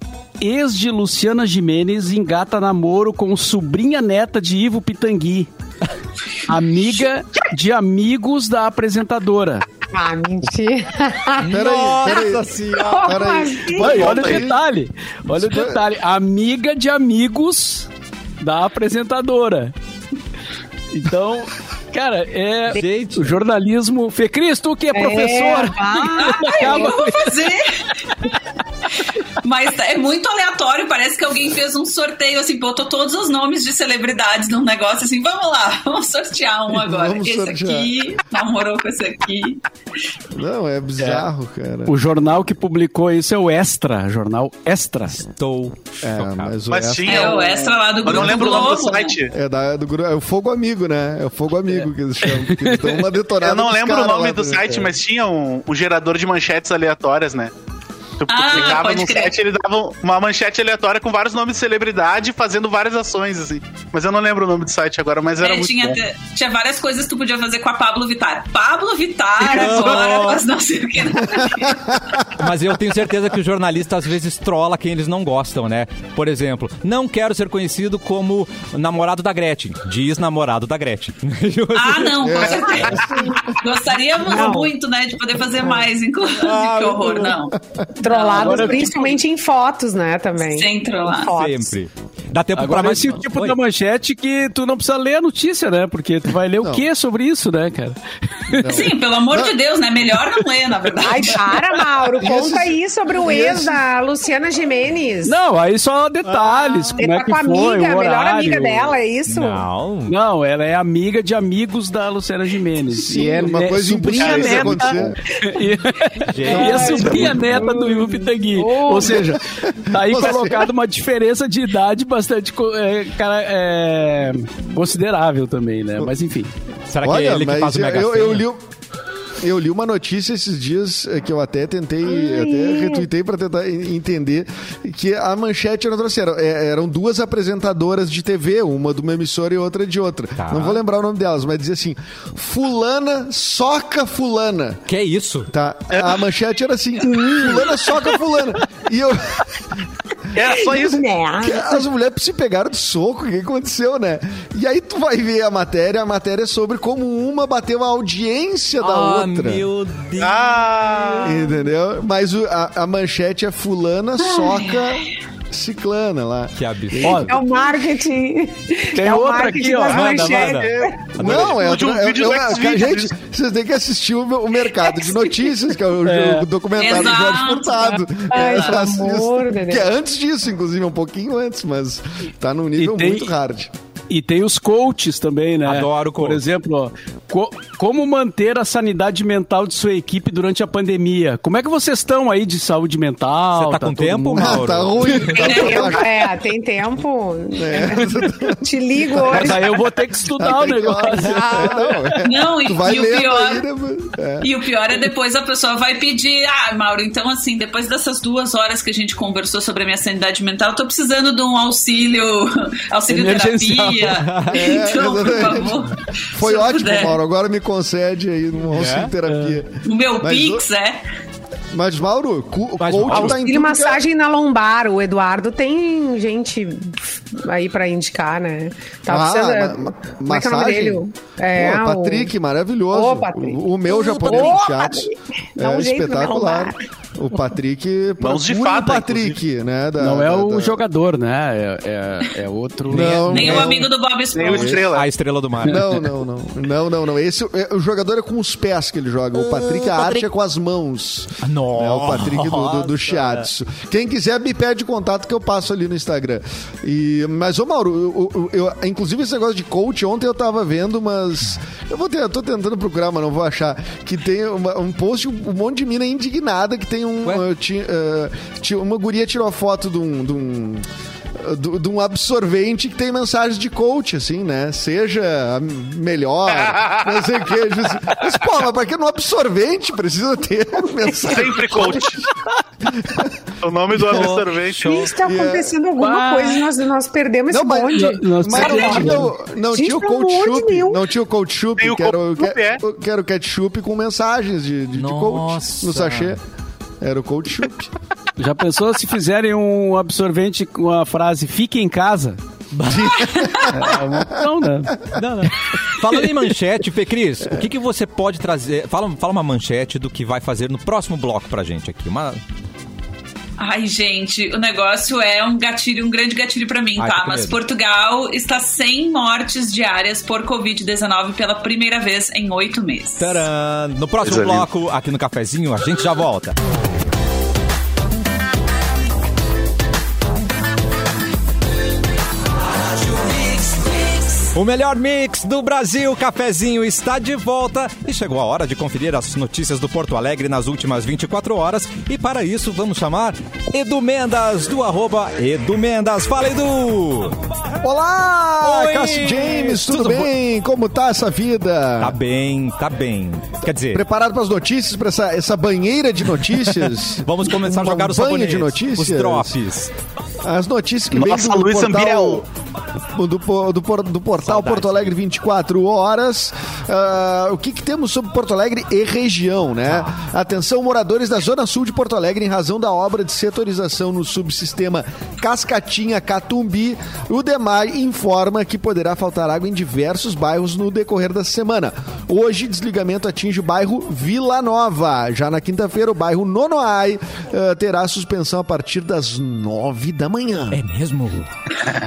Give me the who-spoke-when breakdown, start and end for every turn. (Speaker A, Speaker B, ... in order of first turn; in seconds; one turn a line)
Speaker A: 0.4-5.5
Speaker A: 6.5-9.6
Speaker B: 9.9-14.3
Speaker C: 11.4-13.2
Speaker D: 11.5-14.6
Speaker A: 13.8-17.9
Speaker D: 15.3-15.8
Speaker A: 18.4-19.7
Speaker A: 20.9-27.4
Speaker C: 22.7-23.4
Speaker B: 24.9-26.9
Speaker E: 26.1-27.9
Speaker E: 29.4-39.6
Speaker D: 36.7-37.9
Speaker D: 40.3-41.9
Speaker A: 41.0-41.3
Speaker A: 41.9-45.2
Speaker C: 45.2-46.6
Speaker D: 46.0-48.5
Speaker F: 46.7-49.3
Speaker E: 47.0-49.1
Speaker D: 49.3-54.9
Speaker A: 52.2-53.0
Speaker F: 53.4-57.5
Speaker F: 58.2-66.0
Speaker E: 58.3-59.3
Speaker E: 65.4-72.1
Speaker C: 69.4-70.4
Speaker D: 71.4-72.0
Speaker C: 72.3-82.5
Speaker E: 81.7-89.2
Speaker D: 82.2-83.4
Speaker B: 82.9-83.4
Speaker B: 84.2-84.7
Speaker C: 86.3-87.4
Speaker B: 88.0-91.8
Speaker A: 88.3-89.1
Speaker E: 90.4-91.3
Speaker C: 91.3-93.6
Speaker A: 92.5-98.0
Speaker D: 96.6-96.8
Speaker A: 98.5-98.8
Speaker D: 98.5-99.5
Speaker E: 98.7-101.7
Speaker B: 101.0-105.3
Speaker D: 102.2-103.8
Speaker A: 105.2-108.9
Speaker C: 106.3-107.0
Speaker B: 107.0-109.7
Speaker C: 109.2-110.2
Speaker A: 110.1-126.5
Speaker D: 112.9-115.2
Speaker F: 114.2-114.8
Speaker C: 116.2-117.5
Speaker B: 116.4-119.3
Speaker D: 117.0-117.3
Speaker D: 119.0-120.7
Speaker C: 126.9-128.4
Speaker D: 127.0-128.6
Speaker D: 129.4-144.8
Speaker B: 132.1-133.1
Speaker C: 140.4-140.8
Speaker C: 144.9-145.5
Speaker D: 145.5-149.5
Speaker F: 145.9-146.2
Speaker B: 147.4-147.6
Speaker F: 150.3-151.0
Speaker B: 150.4-151.8
Speaker D: 151.4-159.7
Speaker C: 158.8-160.6
Speaker F: 160.2-161.4
Speaker B: 161.1-161.5
Speaker D: 161.2-167.4
Speaker E: 164.2-165.0
Speaker C: 166.6-167.3
Speaker A: 167.0-167.3
Speaker B: 167.2-170.9
Speaker A: 168.9-170.6
Speaker C: 169.9-171.6
Speaker F: 170.5-173.1
Speaker D: 171.2-183.7
Speaker B: 175.1-175.3
Speaker A: 176.0-176.5
Speaker E: 176.8-178.8
Speaker B: 178.3-179.9
Speaker A: 182.8-183.3
Speaker A: 184.1-195.2
Speaker C: 185.6-186.4
Speaker C: 193.5-195.5
Speaker D: 194.4-196.2
Speaker B: 195.3-199.8
Speaker E: 195.3-196.0
Speaker D: 197.5-199.6
Speaker A: 199.3-202.1
Speaker D: 200.4-204.5
Speaker C: 201.2-201.9
Speaker E: 202.2-203.6
Speaker E: 204.4-217.2
Speaker A: 213.1-214.2
Speaker C: 214.2-214.7
Speaker D: 214.5-220.7
Speaker C: 218.7-219.1
Speaker A: 219.3-219.6
Speaker E: 219.8-221.0
Speaker D: 221.7-224.0
Speaker C: 222.8-223.4
Speaker B: 223.1-232.3
Speaker D: 229.1-240.8
Speaker B: 232.9-236.8
Speaker F: 238.2-239.4
Speaker A: 240.0-243.4
Speaker D: 242.9-243.9
Speaker C: 242.9-243.7
Speaker E: 243.3-244.8
Speaker F: 244.3-245.1
Speaker D: 244.4-244.8
Speaker C: 244.9-246.0
Speaker D: 245.6-282.2
Speaker C: 249.4-250.2
Speaker C: 251.4-253.4
Speaker F: 276.5-277.2
Speaker F: 281.2-282.2
Speaker D: 282.8-283.3
Speaker F: 283.6-284.9
Speaker D: 284.0-284.2
Speaker C: 284.0-285.1
Speaker B: 284.8-291.0
Speaker D: 285.2-285.7
Speaker A: 286.0-286.6
Speaker D: 287.5-296.4
Speaker A: 287.9-289.3
Speaker F: 291.8-292.8
Speaker C: 295.0-296.4
Speaker D: 297.0-297.9
Speaker A: 298.4-302.4
Speaker C: 302.7-303.2
Speaker D: 302.8-305.2
Speaker E: 303.3-303.7
Speaker A: 303.7-305.0
Speaker C: 305.1-312.4
Speaker E: 313.6-323.4
Speaker C: 317.0-317.6
Speaker C: 323.2-326.6
Speaker F: 324.2-324.7
Speaker C: 333.0-347.4
Speaker D: 347.8-352.2
Speaker C: 348.6-350.3
Speaker C: 352.0-354.0
Speaker D: 353.9-359.5
Speaker C: 357.1-359.9
Speaker D: 360.4-362.4
Speaker F: 361.1-362.4
Speaker D: 363.1-390.8
Speaker C: 364.4-365.1
Speaker C: 369.9-370.1
Speaker C: 390.7-391.5